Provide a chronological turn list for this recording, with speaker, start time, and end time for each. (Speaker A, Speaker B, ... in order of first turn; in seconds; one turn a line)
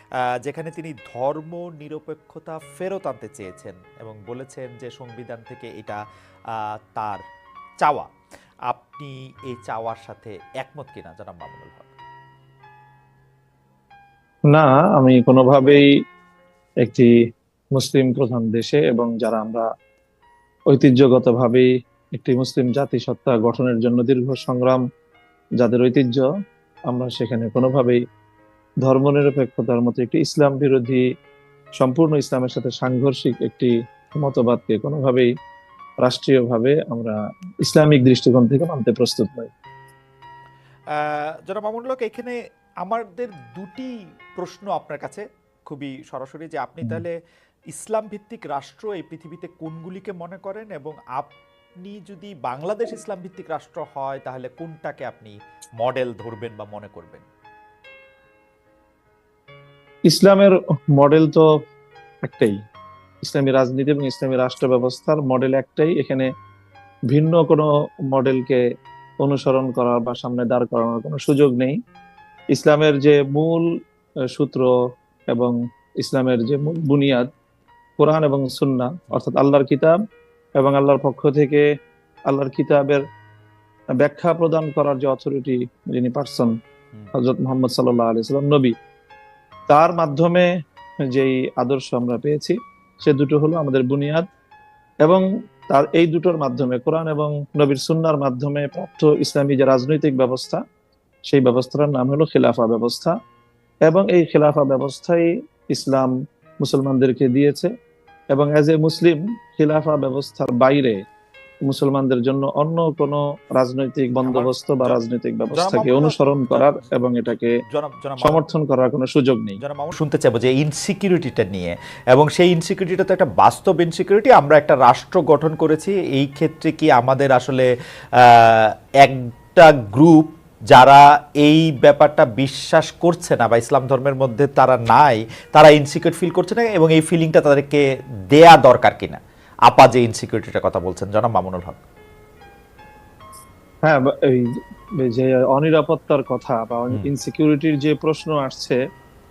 Speaker A: 0.4-6.0
Speaker A: 6.5-7.2
Speaker A: 8.7-11.9
Speaker B: 14.5-15.8
Speaker B: 16.8-17.1
Speaker B: 17.8-19.6
Speaker B: 20.7-24.8
Speaker B: 25.6-26.3
Speaker B: 26.9-28.0
Speaker B: 28.8-31.0
Speaker B: 31.8-35.3
Speaker B: 36.0-39.5
Speaker A: 40.9-47.1
Speaker A: 47.7-51.3
Speaker A: 51.8-57.2
Speaker B: 60.1-61.4
Speaker B: 62.2-62.5
Speaker B: 63.2-66.3
Speaker B: 67.1-68.6
Speaker B: 69.2-71.8
Speaker B: 72.5-73.7
Speaker B: 74.3-74.7
Speaker B: 75.3-77.3
Speaker B: 78.0-80.0
Speaker B: 80.6-81.6
Speaker B: 82.3-83.0
Speaker B: 84.0-86.5
Speaker B: 87.1-88.7
Speaker B: 89.7-90.5
Speaker B: 91.1-94.2
Speaker B: 95.0-100.6
Speaker B: 101.3-103.1
Speaker B: 103.9-107.7
Speaker B: 108.3-111.0
Speaker B: 111.7-117.5
Speaker A: 114.2-115.0
Speaker A: 115.5-116.8
Speaker A: 117.7-118.4
Speaker B: 118.2-119.6
Speaker A: 119.6-127.7
Speaker A: 128.2-141.8
Speaker B: 143.8-144.5
Speaker B: 145.0-148.8